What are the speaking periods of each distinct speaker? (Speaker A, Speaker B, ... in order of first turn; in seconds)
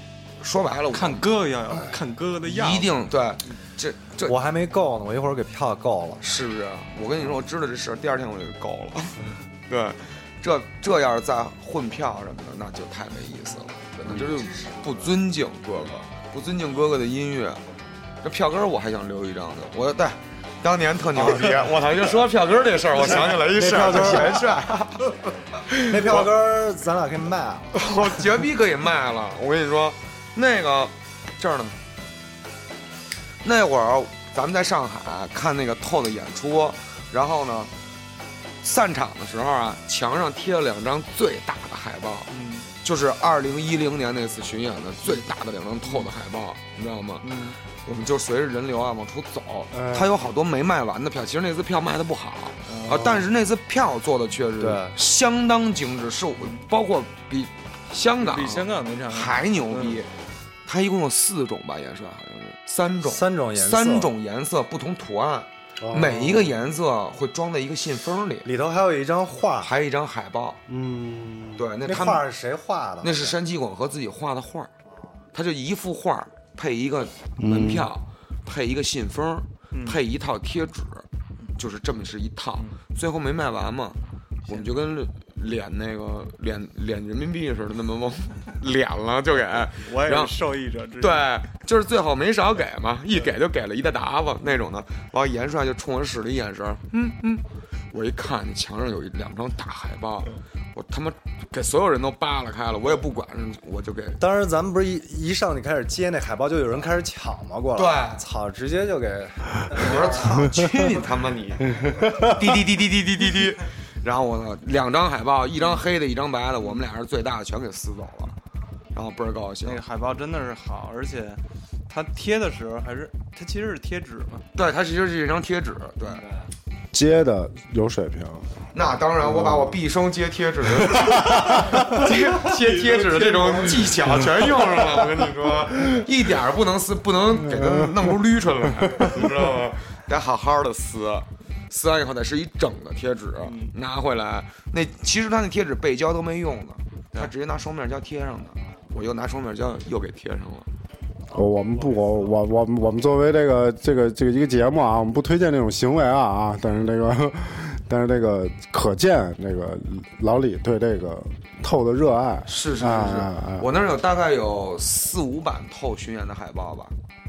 Speaker A: 0.4-1.3, 2.4-4.3, 6.2-17.6, 18.2-26.3, 27.7-31.8, 33.4-37.7, 38.6-47.3, 47.8-60.1, 60.6-68.5, 69.6-70.6, 71.6-72.2, 73.0-74.7, 75.3-81.0, 81.6-90.3, 91.0-104.2, 107.8-108.2, 109.7-118.3, 118.9-119.8, 124.5-126.2, 128.7-150.7, 162.4-166.9
Speaker B: 0.9-3.0, 42.3-42.7, 45.8-46.1, 47.2-47.6, 52.6-53.2, 56.4-56.6, 58.2-60.0, 79.7-80.0, 84.5-84.7, 89.7-91.3, 115.6-115.8, 119.6-124.5, 131.7-134.7, 143.4-143.7
Speaker C: 4.2-6.3, 23.3-24.7, 25.8-27.9, 49.8-50.0, 54.6-55.0, 63.0-64.1, 68.4-69.7, 71.8-73.3, 104.2-110.6
Speaker D: 65.8-66.5, 70.7-71.7, 77.4-77.9, 111.8-112.3, 126.9-128.6, 129.2-129.8, 130.8-131.9, 137.4-138.1, 138.9-139.1, 151.3-163.7